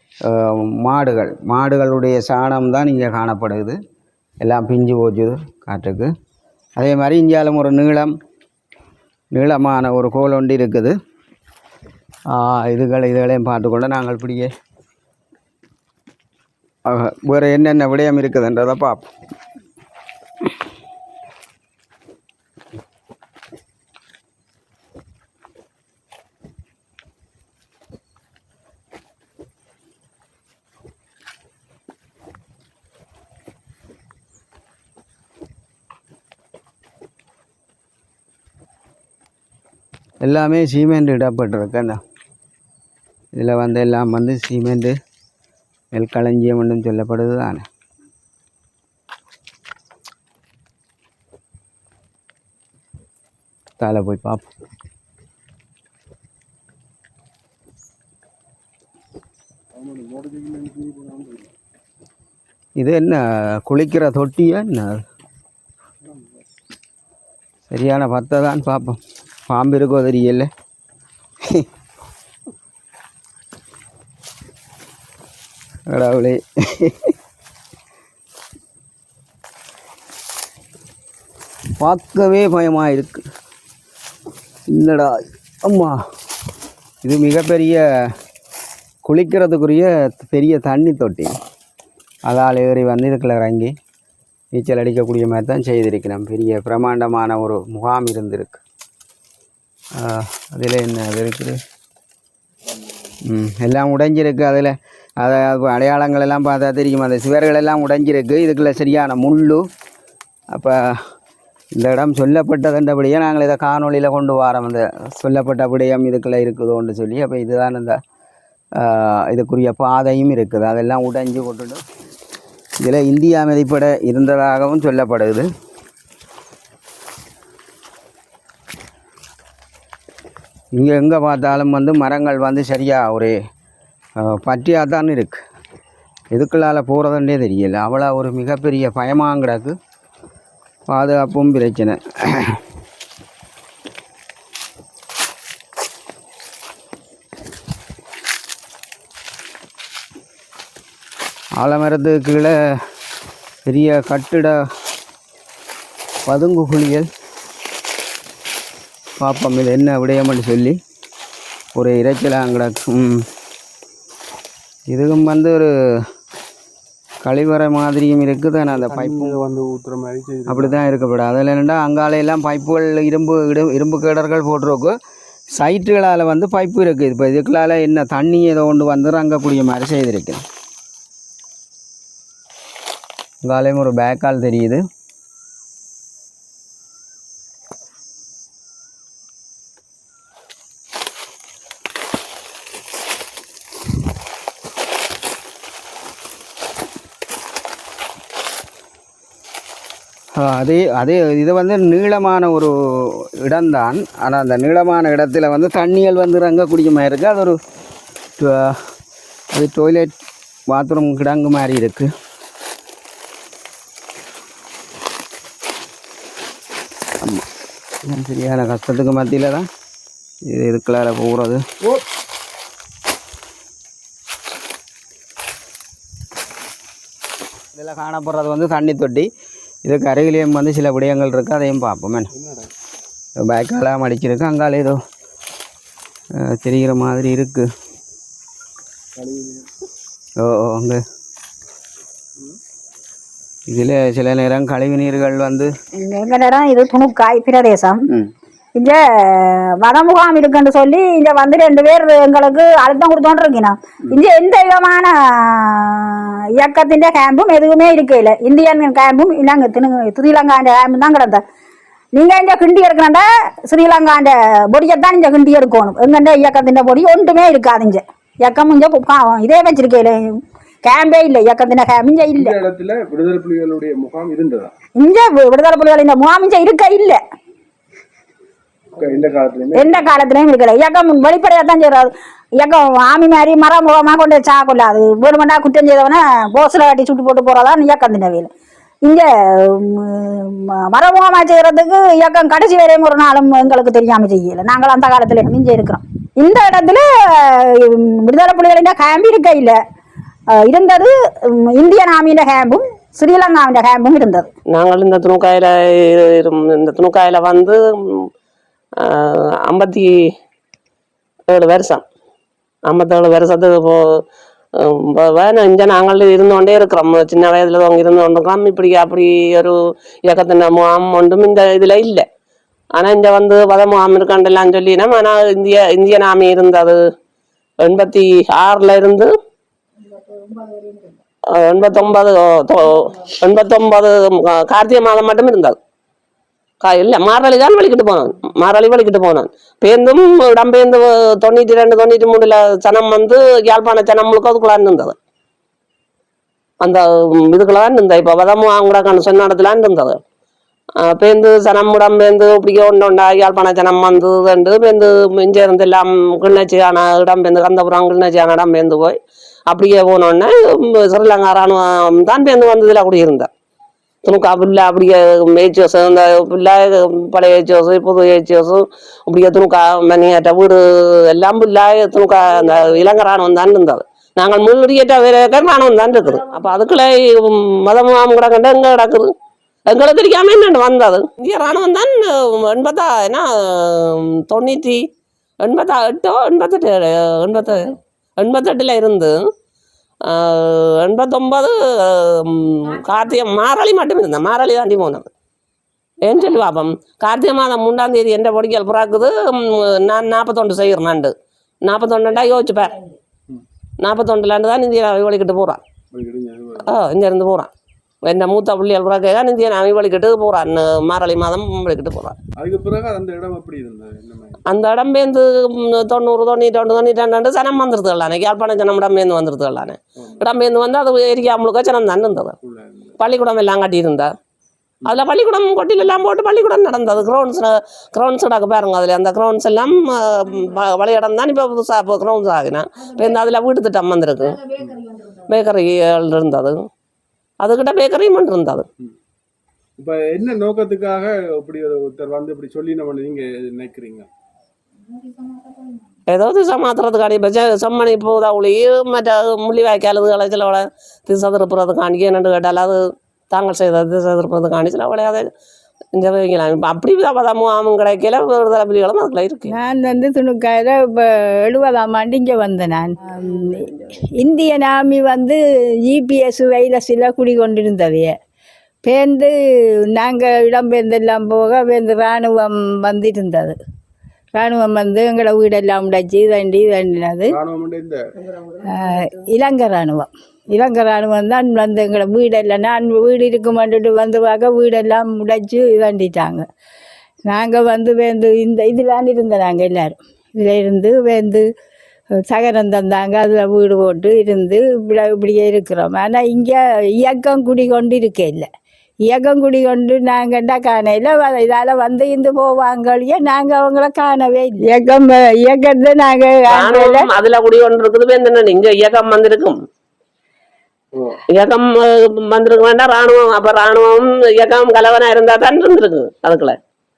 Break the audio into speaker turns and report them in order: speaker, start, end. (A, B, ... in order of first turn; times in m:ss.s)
0:00.3-0:03.8 A
0:04.4-0:06.1 A
0:06.8-0:08.2 A
0:09.3-0:11.0 A
0:12.3-0:14.5 A
0:16.9-0:19.1 A
0:40.2-0:42.0 A
0:43.4-0:45.0 A
0:45.9-0:47.7 A
0:53.8-0:54.4 A
0:59.8-1:01.5 B
1:02.8-1:05.0 A
1:06.0-1:06.4 B
1:07.7-1:10.5 A
1:15.9-1:17.1 A
1:21.8-1:23.2 A
1:24.7-1:26.0 A
1:27.0-1:28.1 A
1:29.0-1:31.4 A
1:32.3-1:33.8 A
1:34.5-1:38.6 A
1:40.0-1:41.6 A
1:43.3-1:49.7 A
1:50.5-1:51.1 A
1:51.8-1:58.0 A
1:58.8-2:01.8 A
2:02.8-2:05.5 A
2:10.8-2:13.4 A
2:14.2-2:15.4 A
2:16.3-2:19.8 A
2:20.9-2:22.6 A
2:31.6-2:32.6 A
2:33.7-2:34.6 A
2:36.3-2:37.1 A
2:39.2-2:40.8 A
2:41.8-2:43.3 A
2:44.9-2:46.1 A
2:47.2-2:49.4 A
2:48.7-2:50.8 B
2:50.5-2:55.0 A
2:55.6-3:00.4 A
3:03.4-3:04.9 A
3:20.4-3:27.6 A
3:28.4-3:28.8 A
3:29.5-3:30.1 A
3:30.7-3:32.1 A
3:37.2-3:37.5 A
3:38.0-3:39.7 A
3:40.5-3:41.6 A
3:47.8-3:49.3 A
3:49.8-3:52.3 A
3:52.3-3:52.7 B
3:53.4-3:55.0 A
3:56.4-3:57.7 A
3:59.2-3:59.7 B
4:00.4-4:01.0 A
4:03.7-4:05.7 A
4:06.0-4:08.0 C
4:08.8-4:21.4 C
4:22.1-4:32.6 C
4:32.4-4:34.7 B
4:35.0-4:37.2 C
4:39.0-4:40.0 B
4:39.7-4:48.5 C
4:49.0-4:59.8 C
5:00.5-5:04.5 C
5:04.7-5:08.3 D
5:09.0-5:10.1 D
5:11.5-5:12.0 D
5:12.9-5:14.2 D
5:14.8-5:22.2 D
5:23.0-5:27.0 D
5:27.8-5:29.3 D
5:31.5-5:35.8 D
5:36.8-5:45.2 D
5:46.8-5:50.2 D
5:51.0-5:59.2 D
5:59.7-6:03.5 D
6:04.2-6:19.3 D
6:19.9-6:25.0 D
6:25.6-6:29.4 D
6:30.2-6:35.3 D
6:36.2-6:41.3 D
6:41.8-6:43.0 D
6:44.0-6:45.8 D
6:46.1-6:46.9 B
6:46.9-6:47.7 D
6:48.3-6:52.4 D
6:52.6-6:54.6 B
6:54.7-7:02.6 D
7:02.6-7:03.2 B
7:03.2-7:04.3 D
7:05.1-7:16.9 D
7:17.6-7:18.9 D
7:20.0-7:24.3 B
7:26.3-7:33.0 D
7:33.5-7:35.5 D
7:36.2-7:39.7 D
7:39.7-7:48.4 E
7:49.0-7:53.8 E
7:54.6-7:57.6 E
7:57.5-7:58.2 B
7:58.9-8:06.7 E
8:07.5-8:11.7 E
8:12.5-8:18.7 E
8:19.3-8:27.3 E
8:26.7-8:29.8 D
8:31.1-8:31.4 B
8:31.5-8:36.8 D